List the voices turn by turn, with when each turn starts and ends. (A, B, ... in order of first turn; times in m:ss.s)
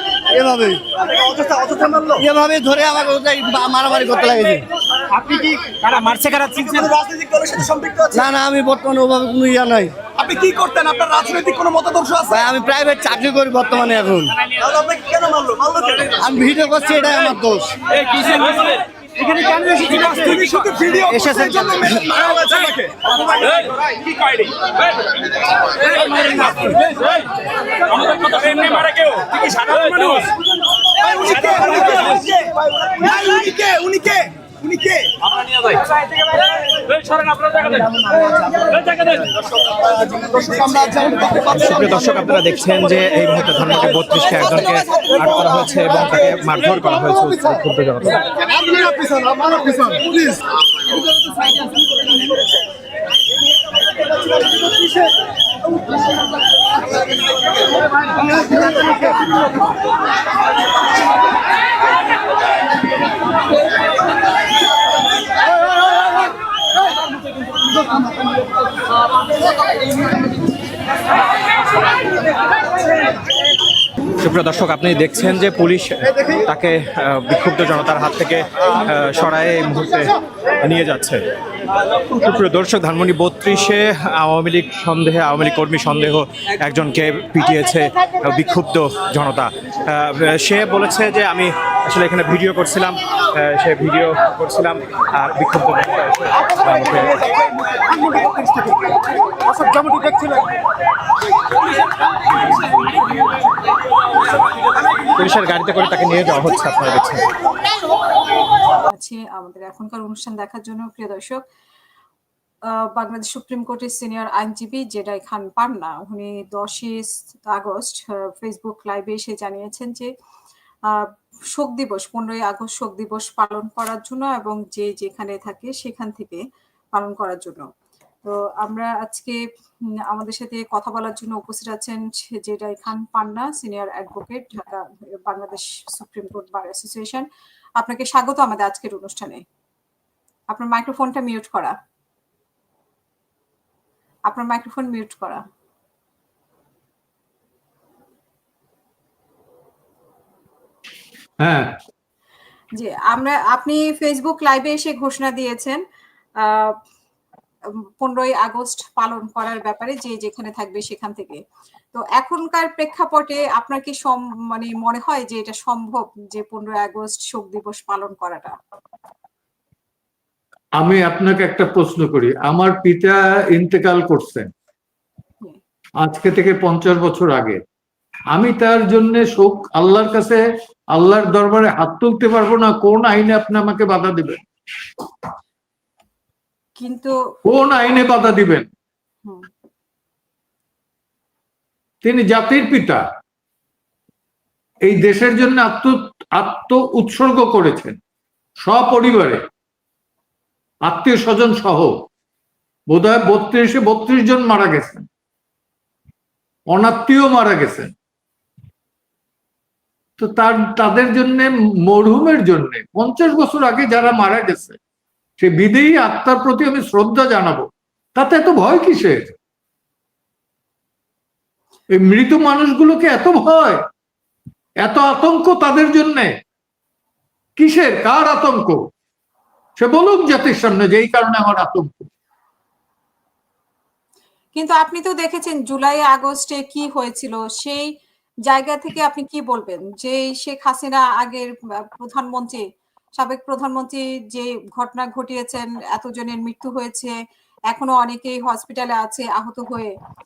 0:00.3-0:00.8 A
0:01.0-0:02.2 B
0:02.2-0:04.6 A
0:05.2-0:06.9 C
0:06.6-0:08.3 B
0:08.1-0:09.9 A
0:10.2-0:12.5 B
0:12.3-0:14.3 A
0:14.6-0:16.2 B
0:16.2-0:17.8 A
0:18.1-0:23.9 B
0:21.1-0:22.0 A
0:26.0-0:26.8 B
0:28.1-0:29.2 C
0:29.2-0:30.3 B
0:30.9-0:35.1 B
0:35.3-0:35.8 C
0:37.0-0:37.8 C
0:39.8-0:41.7 B
0:41.4-0:48.2 C
0:48.6-0:50.1 A
1:14.2-1:21.2 C
1:22.0-1:37.3 C
1:45.2-1:47.3 C
1:48.9-1:51.4 D
1:52.7-2:00.1 D
2:00.9-2:06.4 D
2:07.0-2:07.7 D
2:08.2-2:09.4 D
2:10.1-2:17.3 D
2:17.8-2:19.4 D
2:20.5-2:21.7 D
2:24.3-2:25.4 D
2:31.4-2:31.8 E
2:32.8-2:35.8 D
2:36.4-2:36.8 D
2:38.0-2:41.4 D
2:41.9-2:48.6 D
2:50.8-2:54.5 E
2:56.0-2:57.6 E
2:58.3-3:04.4 E
3:06.8-3:07.2 D
3:07.4-3:08.7 E
3:12.0-3:13.0 E
3:14.8-3:18.0 E
3:18.6-3:19.4 E
3:20.8-3:22.1 E
3:22.9-3:25.1 E
3:26.7-3:27.9 E
3:30.2-3:34.8 E
3:35.4-3:39.4 E
3:41.9-3:43.8 E
3:44.8-3:46.4 E
3:47.6-3:48.9 E
3:49.8-3:52.1 E
3:54.6-3:57.9 D
3:58.5-4:02.6 D
4:03.2-4:07.2 D
4:07.7-4:09.9 D